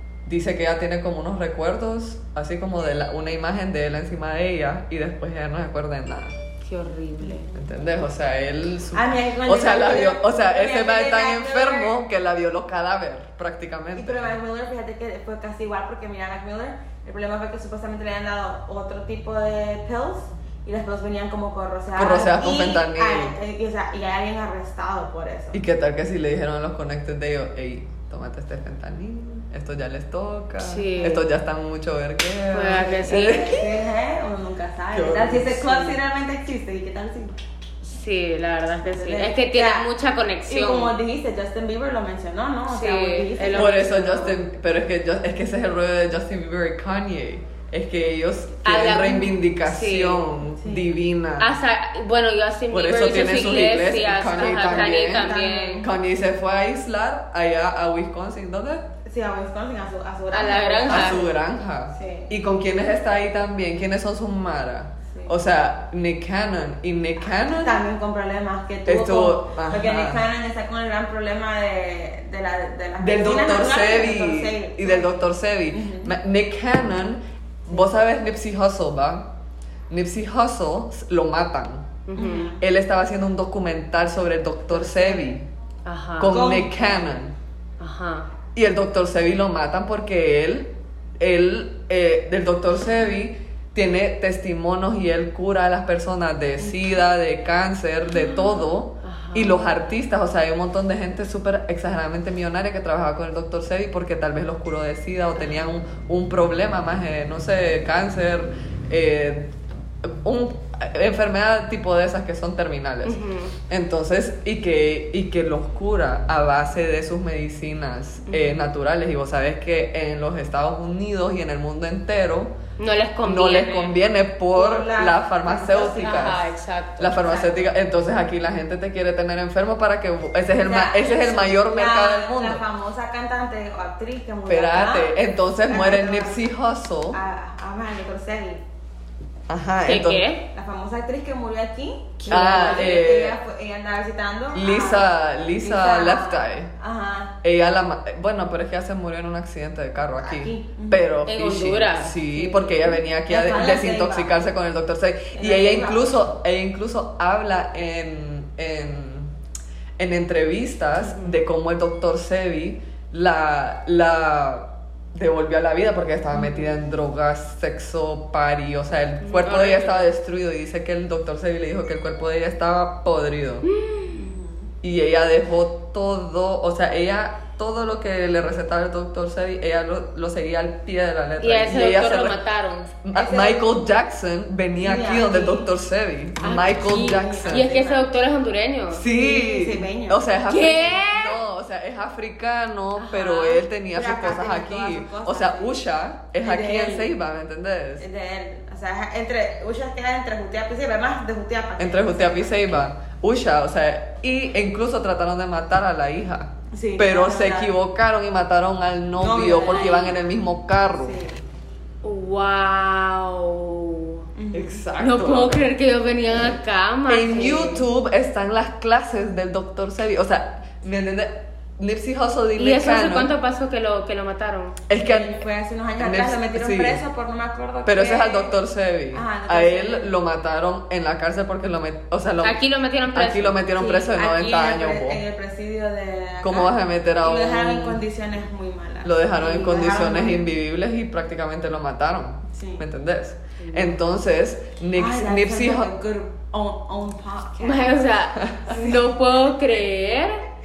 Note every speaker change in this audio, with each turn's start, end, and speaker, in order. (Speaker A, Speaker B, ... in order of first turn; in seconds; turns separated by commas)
Speaker A: 0.3-6.4, Speaker B: 6.6-7.5, Speaker C: 7.2-7.4, Speaker A: 7.5-14.4, Speaker C: 8.9-12.0, Speaker C: 13.9-25.6, Speaker A: 22.0-23.4, Speaker A: 25.5-33.9, Speaker B: 30.6-31.2, Speaker B: 32.5-33.4, Speaker C: 33.1-37.4, Speaker A: 34.9-36.0, Speaker B: 37.8-41.0, Speaker C: 38.8-39.9, Speaker C: 40.5-44.4, Speaker B: 42.7-43.8, Speaker A: 43.5-51.5, Speaker B: 48.6-50.2, Speaker C: 50.6-50.9, Speaker B: 51.4-55.9, Speaker A: 52.7-58.9, Speaker C: 53.0-55.9, Speaker C: 59.1-61.3, Speaker B: 60.3-61.2, Speaker A: 60.9-67.8, Speaker C: 61.9-62.3, Speaker C: 67.3-76.1, Speaker A: 68.9-70.2, Speaker A: 73.0-79.3, Speaker A: 79.9-82.0, Speaker B: 82.1-82.5, Speaker C: 82.2-82.6, Speaker A: 82.6-85.5, Speaker C: 84.7-85.3, Speaker B: 85.8-86.6, Speaker A: 86.2-87.3, Speaker C: 86.3-87.1, Speaker B: 87.8-88.3, Speaker A: 88.5-113.2, Speaker C: 96.6-97.0, Speaker B: 99.0-99.8, Speaker B: 113.0-113.5, Speaker A: 113.7-122.5, Speaker B: 118.3-118.6, Speaker B: 122.8-124.0, Speaker A: 123.2-126.4, Speaker C: 124.5-126.4, Speaker B: 126.0-127.2, Speaker A: 127.0-132.6, Speaker C: 127.2-127.7, Speaker C: 130.6-136.5, Speaker A: 134.5-137.2, Speaker C: 137.1-138.6, Speaker A: 139.5-140.3, Speaker B: 139.8-140.4, Speaker C: 140.5-147.4, Speaker A: 142.3-143.4, Speaker B: 142.3-142.8, Speaker A: 144.6-146.7, Speaker A: 147.4-159.3, Speaker C: 150.2-151.1, Speaker B: 151.3-152.3, Speaker C: 152.3-154.4, Speaker C: 155.3-156.2, Speaker A: 160.0-173.7, Speaker B: 161.0-161.4, Speaker B: 166.3-166.7, Speaker B: 169.2-170.2, Speaker B: 173.7-174.2, Speaker C: 174.1-174.7, Speaker A: 174.8-182.4, Speaker B: 181.4-182.9, Speaker A: 183.0-187.7, Speaker C: 183.1-183.7, Speaker C: 184.8-185.7, Speaker B: 186.4-189.1, Speaker C: 186.4-188.1, Speaker A: 188.9-198.1, Speaker C: 189.0-190.3, Speaker B: 190.4-191.4, Speaker C: 193.0-197.2, Speaker C: 198.0-202.8, Speaker A: 201.8-211.2, Speaker C: 206.7-207.7, Speaker C: 209.2-210.1, Speaker B: 209.5-210.2, Speaker C: 211.0-211.4, Speaker B: 212.0-214.3, Speaker C: 214.4-214.8, Speaker A: 214.5-215.6, Speaker B: 215.0-217.8, Speaker A: 217.1-223.3, Speaker C: 217.3-217.8, Speaker B: 222.6-224.8, Speaker A: 224.9-225.4, Speaker C: 224.9-228.6, Speaker A: 226.0-227.0, Speaker A: 227.9-235.2, Speaker C: 229.1-230.1, Speaker B: 232.4-233.6, Speaker C: 233.8-240.5, Speaker A: 236.4-238.0, Speaker A: 239.0-245.9, Speaker C: 242.5-242.8, Speaker B: 243.6-244.0, Speaker C: 244.9-248.1, Speaker B: 247.6-250.4, Speaker C: 248.7-249.2